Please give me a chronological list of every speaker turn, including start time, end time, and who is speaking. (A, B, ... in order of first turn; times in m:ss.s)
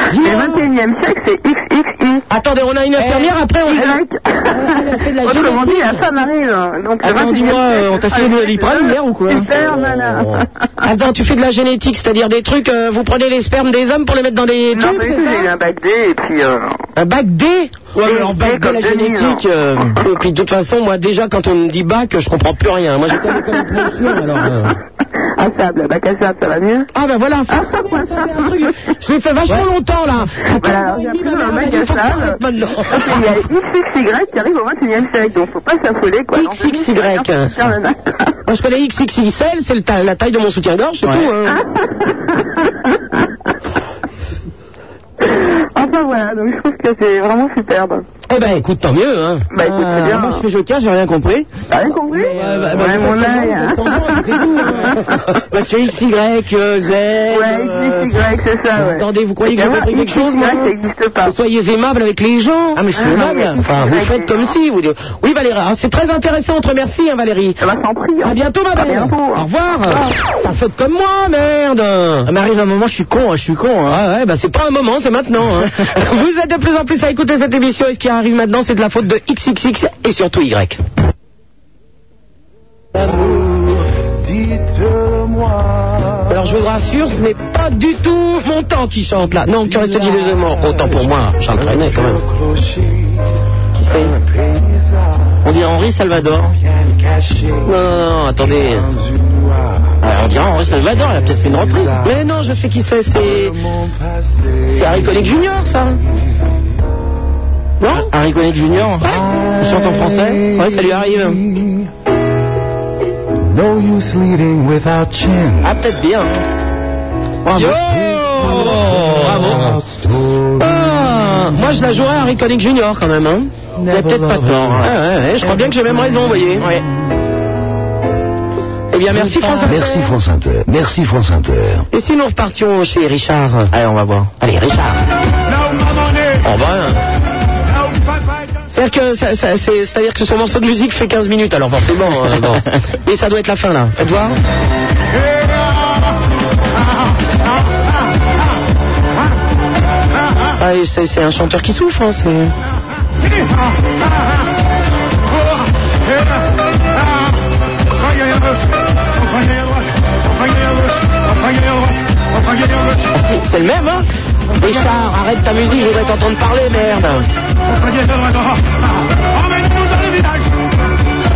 0:00.2-0:02.2 A
0:00.2-0:00.6 B
0:00.2-0:00.5 C
0:02.3-0:04.0 B
0:03.0-0:03.3 C
0:03.7-0:10.5 A
0:04.5-0:06.0 B
0:07.0-0:10.2 C
0:07.2-0:07.9 B
0:10.8-0:15.5 B
0:14.7-0:16.8 A
0:17.0-0:19.3 B
0:18.0-0:19.9 C
0:18.0-0:19.8 A
0:20.0-0:24.7 B
0:23.2-0:24.7 A
0:25.4-0:26.9 A
0:26.9-0:33.3 B
0:27.5-0:28.7 A
0:30.4-0:38.3 A
0:36.3-0:37.6 B
0:38.5-0:41.6 B
0:41.0-0:41.3 C
0:41.5-0:43.0 A
0:45.2-0:48.0 A
0:48.3-0:49.4 B
0:49.5-0:50.4 A
0:49.6-0:51.5 C
0:51.7-0:55.2 A
0:52.1-0:58.1 C
0:52.3-0:55.0 B
0:57.3-1:01.4 A
0:58.8-1:00.7 B
1:01.2-1:02.8 B
1:02.8-1:03.6 C
1:03.0-1:04.5 A
1:03.6-1:07.6 B
1:07.6-1:10.1 A
1:08.2-1:12.3 B
1:12.3-1:14.0 C
1:13.9-1:20.8 B
1:26.3-1:32.2 B
1:29.9-1:30.2 C
1:33.8-1:34.1 B
1:35.4-1:36.6 C
1:37.6-1:38.9 B
1:40.0-1:42.1 C
1:42.0-1:43.6 B
1:44.7-1:46.0 B
1:47.8-1:48.1 B
1:47.9-1:50.8 C
1:50.4-1:51.4 B
1:53.6-1:55.6 D
1:55.6-1:56.4 C
1:57.4-1:59.8 C
1:57.5-1:59.8 B
2:00.6-2:06.7 B
2:03.9-2:05.6 C
2:06.6-2:06.8 C
2:08.9-2:10.1 B
2:09.2-2:11.9 D
2:11.9-2:13.7 B
2:13.7-2:14.4 C
2:14.4-2:15.0 B
2:16.5-2:16.9 C
2:18.7-2:24.4 B
2:22.1-2:22.6 C
2:30.5-2:32.5 B
2:43.1-2:44.1 B
2:44.6-2:47.2 B